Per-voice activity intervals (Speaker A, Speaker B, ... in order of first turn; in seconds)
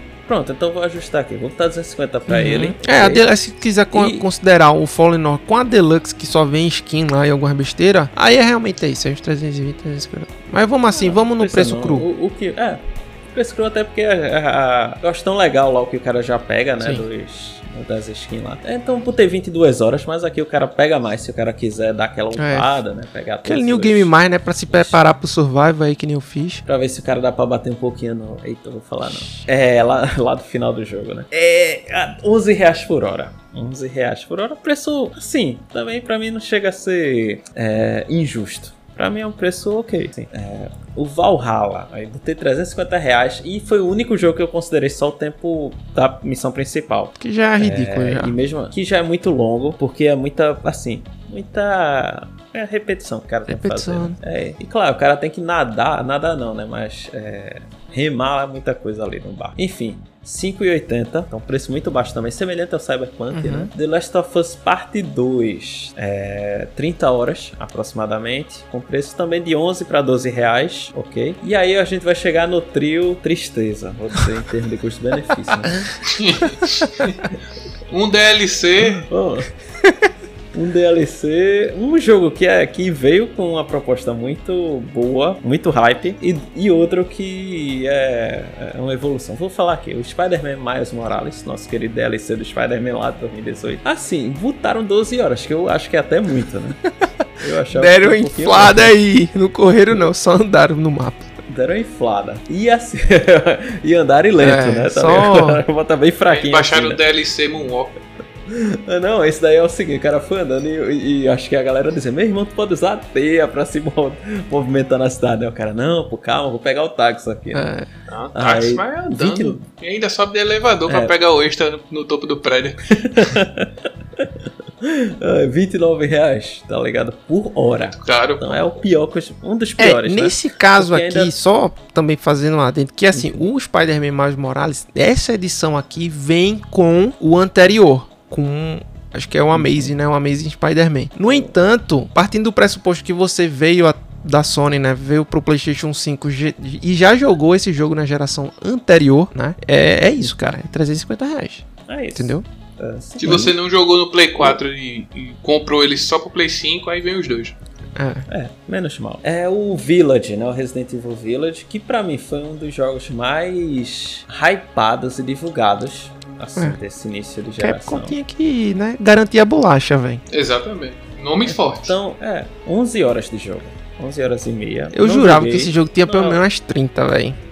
Speaker A: 0.3-3.3, 3.9-4.3, 10.9-24.1, 24.7-25.0, 26.7-75.9, 79.1-79.5, 80.5-96.8, 97.4-98.9, 101.5-107.0, 108.5-117.7, 118.3-119.6, 120.9-121.1, 122.9-131.3, 133.1-133.4, 139.5-139.9, 141.3-141.6, 151.9-153.5, 158.3-168.1, 171.5-176.4
Speaker B: 2.3-12.1, 22.4-22.7, 23.4-26.6, 29.1-29.4, 47.2-48.4, 53.5-54.2, 63.3-63.7, 79.8-80.1, 97.7-101.3, 104.4-105.6, 117.5-117.9, 129.8-152.4, 157.9-158.3, 167.6-170.2, 174.9-177.4
Speaker C: 76.0-77.2, 77.9-79.1, 106.3-108.0, 118.1-123.0, 128.0-128.6, 153.2-157.6, 170.3-172.0